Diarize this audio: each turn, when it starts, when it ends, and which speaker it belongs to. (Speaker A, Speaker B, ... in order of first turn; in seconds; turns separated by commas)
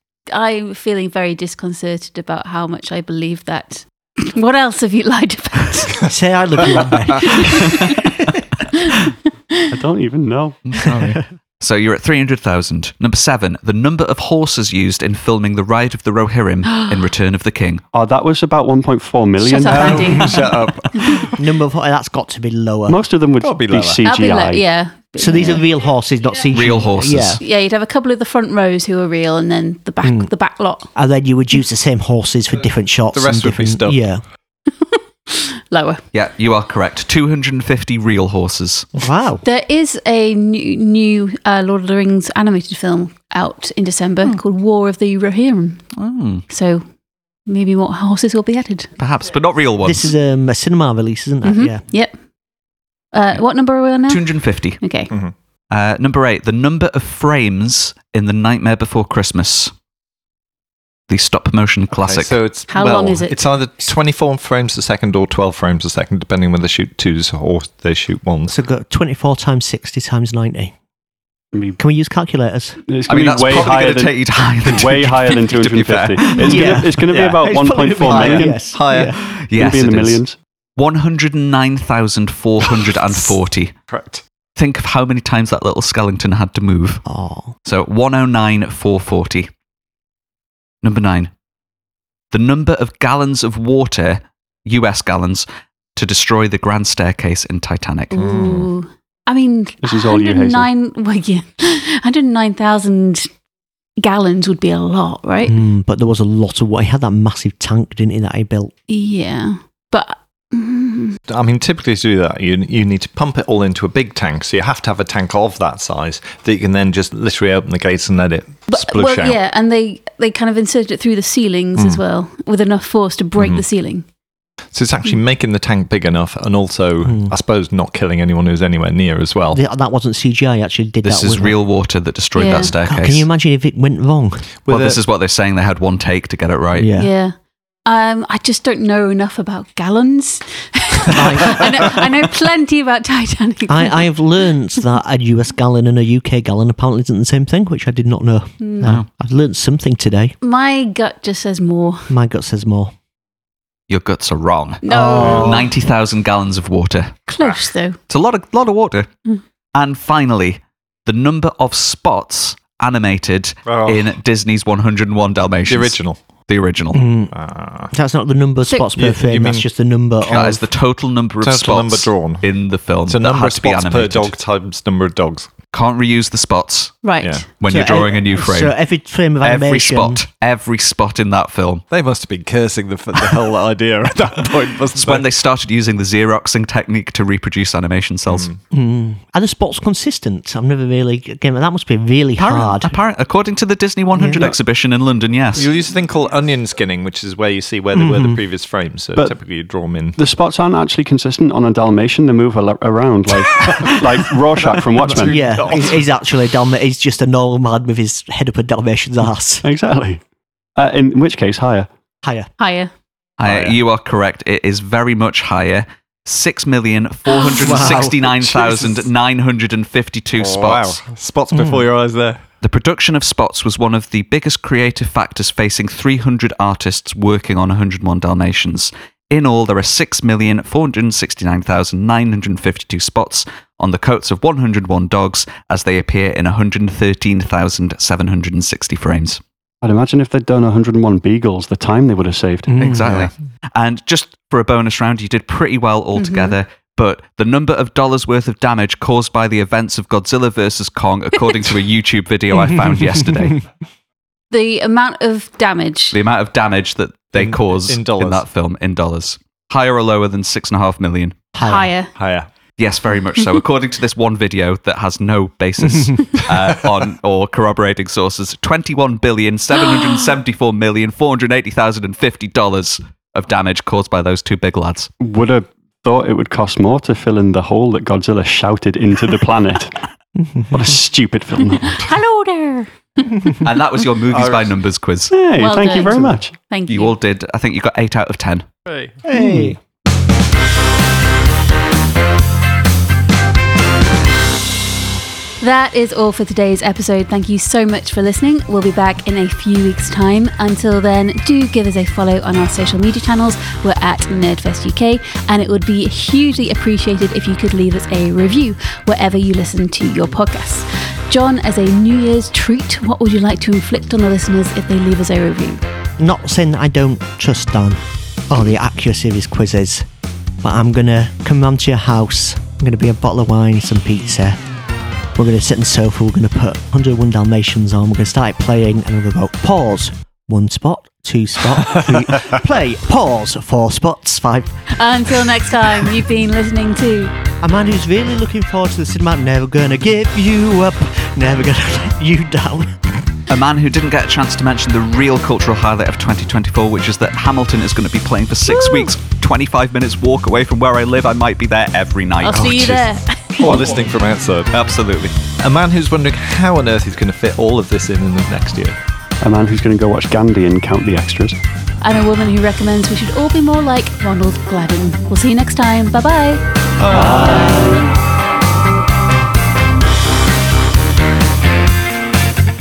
Speaker A: 0.3-6.0, Speaker B: 6.0-8.4, Speaker A: 6.6-8.1, Speaker A: 8.8-9.7, Speaker C: 9.7-10.6, Speaker D: 10.7-17.8, Speaker B: 10.9-11.2, Speaker A: 16.8-17.0, Speaker C: 17.9-20.3, Speaker A: 19.4-21.3, Speaker E: 19.7-21.4, Speaker B: 21.4-23.0, Speaker C: 22.9-24.6, Speaker E: 23.4-24.0, Speaker A: 24.0-25.7, Speaker B: 25.2-27.4, Speaker D: 26.5-27.4, Speaker A: 27.4-30.9, Speaker B: 30.0-30.3, Speaker B: 30.9-34.2, Speaker E: 33.1-34.0, Speaker A: 34.7-36.0, Speaker D: 36.1-38.9, Speaker B: 39.0-39.4, Speaker A: 39.4-45.8, Speaker D: 46.0-46.5, Speaker A: 46.5-46.9, Speaker A: 47.5-48.9, Speaker D: 49.0-50.1, Speaker B: 49.8-51.8, Speaker A: 51.4-52.1, Speaker A: 53.1-55.1, Speaker D: 54.1-54.8, Speaker D: 55.7-59.7, Speaker D: 61.1-62.4, Speaker E: 61.9-68.6, Speaker A: 62.7-63.5, Speaker B: 68.5-70.7, Speaker C: 71.5-71.8, Speaker B: 71.8-72.8, Speaker C: 72.9-78.6, Speaker D: 73.1-76.8, Speaker B: 76.4-79.2, Speaker E: 77.1-77.4, Speaker E: 78.1-79.1, Speaker D: 78.9-80.2, Speaker C: 79.5-80.4, Speaker D: 80.8-83.7, Speaker E: 83.9-84.2, Speaker D: 84.6-87.0, Speaker B: 87.1-87.5, Speaker D: 87.7-89.5, Speaker D: 90.8-91.3, Speaker D: 92.3-95.5, Speaker D: 96.0-98.2, Speaker A: 98.1-103.3, Speaker E: 98.2-98.7, Speaker C: 99.8-100.7, Speaker A: 104.0-105.5, Speaker B: 105.5-108.7, Speaker A: 108.9-111.2, Speaker E: 111.3-119.4, Speaker A: 118.7-124.0, Speaker E: 123.4-123.7, Speaker E: 124.7-129.6, Speaker B: 127.0-127.3, Speaker B: 129.5-131.6, Speaker D: 131.0-133.3, Speaker A: 132.4-132.7, Speaker B: 132.4-134.5, Speaker E: 134.7-135.0, Speaker D: 134.7-136.9, Speaker B: 136.8-137.1, Speaker A: 137.0-137.3, Speaker A: 137.9-144.1, Speaker B: 141.1-141.6, Speaker B: 143.7-150.3, Speaker A: 148.6-148.9, Speaker D: 148.8-149.1, Speaker A: 150.4-152.1, Speaker B: 152.1-152.9, Speaker D: 153.9-157.3, Speaker A: 154.8-155.7, Speaker B: 154.9-155.7, Speaker A: 157.3-158.0, Speaker D: 158.1-159.1, Speaker D: 159.7-167.0, Speaker E: 163.7-164.2, Speaker E: 165.7-166.2, Speaker B: 166.9-167.3, Speaker E: 167.3-167.9, Speaker B: 167.9-170.7, Speaker E: 169.0-169.7, Speaker D: 170.2-174.3, Speaker E: 171.4-172.5, Speaker E: 173.1-175.5, Speaker D: 175.7-178.8, Speaker A: 177.0-177.4, Speaker E: 177.2-177.5, Speaker B: 177.7-180.2, Speaker D: 179.4-181.8, Speaker E: 181.9-185.3, Speaker D: 185.0-188.5, Speaker E: 188.3-188.6, Speaker B: 188.7-192.9, Speaker D: 192.4-195.7, Speaker B: 194.2-194.5, Speaker E: 195.6-200.2, Speaker B: 197.9-198.4, Speaker C: 200.2-205.4, Speaker E: 203.6-203.9, Speaker E: 205.0-206.0, Speaker B: 205.1-209.7, Speaker C: 209.6-210.2, Speaker C: 210.8-211.9, Speaker B: 212.2-212.5, Speaker A: 212.6-212.9, Speaker D: 213.4-221.0, Speaker E: 213.4-213.8, Speaker B: 217.4-218.2, Speaker E: 217.7-219.1, Speaker E: 220.4-222.4, Speaker B: 221.5-221.8, Speaker D: 222.6-239.4, Speaker C: 239.8-242.8, Speaker B: 242.7-243.2, Speaker D: 242.8-253.6, Speaker A: 246.2-246.6, Speaker A: 254.5-256.2, Speaker D: 256.1-261.4, Speaker E: 257.4-258.4, Speaker B: 261.6-261.9, Speaker A: 261.6-262.1, Speaker E: 262.1-262.5, Speaker D: 262.8-275.1, Speaker C: 275.2-280.0, Speaker B: 280.4-280.8, Speaker C: 280.7-282.0, Speaker A: 282.0-283.8, Speaker D: 283.6-285.4, Speaker E: 284.3-284.7, Speaker C: 285.3-286.5, Speaker A: 285.6-287.1, Speaker D: 286.9-288.7, Speaker B: 289.2-289.8, Speaker A: 295.6-315.8, Speaker B: 316.2-320.1, Speaker B: 320.6-324.6, Speaker B: 325.4-334.8, Speaker A: 334.9-337.3, Speaker B: 337.6-343.0, Speaker D: 343.5-353.1, Speaker A: 348.8-349.1, Speaker A: 352.4-353.7, Speaker E: 353.6-354.7, Speaker D: 354.7-355.4, Speaker E: 355.6-359.0, Speaker C: 359.4-361.6, Speaker A: 362.0-366.6, Speaker C: 367.1-368.1, Speaker E: 367.2-367.7